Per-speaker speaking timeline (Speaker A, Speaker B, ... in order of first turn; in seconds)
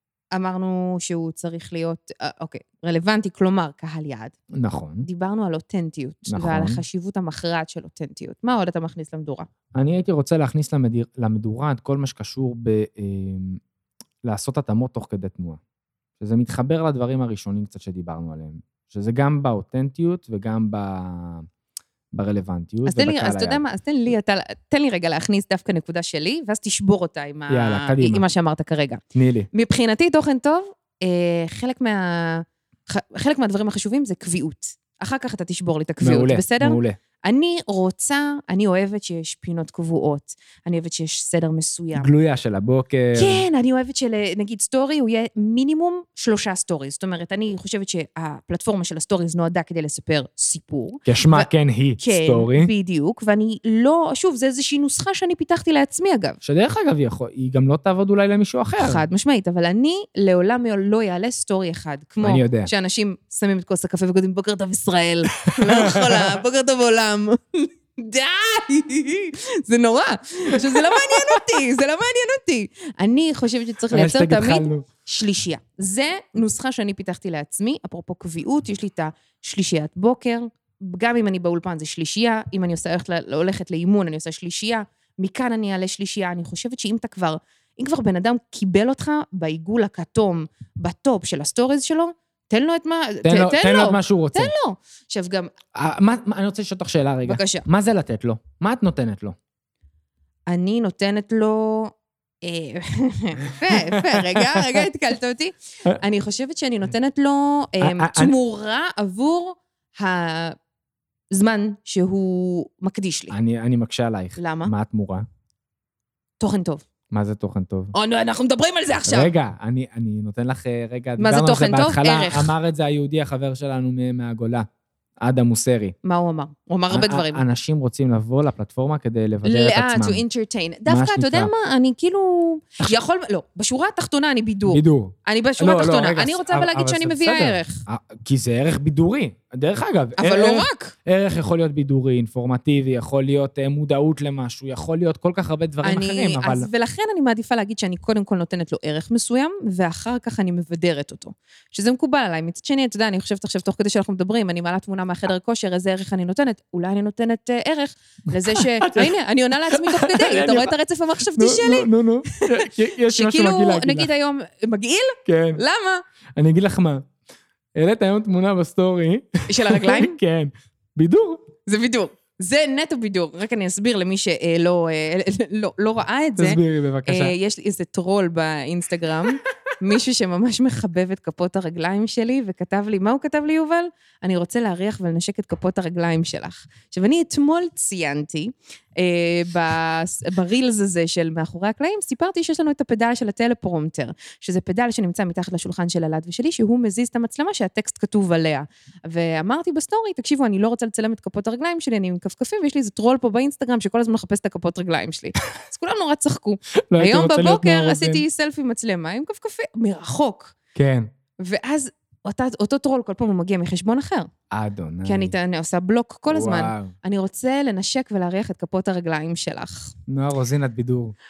Speaker A: 0.3-4.3, 5.0-9.5, 22.9-29.0, 29.5-42.1, 43.1-56.4, 58.8-95.5, 97.2-97.7, 100.5-110.6, 111.3-113.3, 114.4-114.7, 116.4-116.8, 117.9-119.3, 121.2-122.5, 126.0-127.4, 129.4-137.8, 140.2-140.9, 145.8-166.0, 169.5-170.2, 171.7-210.6, 211.4-214.3, 215.1-219.9
Speaker B: 4.5-5.1, 6.3-6.8, 9.7-13.6, 14.2-15.6, 16.2-21.5, 22.1-23.6, 27.5-28.2, 29.1-29.5, 36.0-37.0, 42.0-43.4, 51.1-52.7, 56.4-59.0, 62.2-62.7, 65.4-66.3, 70.8-71.5, 73.9-74.9, 93.2-94.5, 95.8-99.4, 103.5-104.8, 107.8-108.3, 113.3-115.3, 117.1-117.9, 119.1-124.7, 125.2-126.0, 126.9-130.2, 130.9-131.5, 134.7-146.7, 158.3-160.7, 161.3-164.1, 165.3-165.6, 166.4-167.1, 167.8-171.5, 176.4-177.3, 206.9-208.2, 210.8-211.1, 214.5-215.3, 216.3-216.9, 220.1-221.2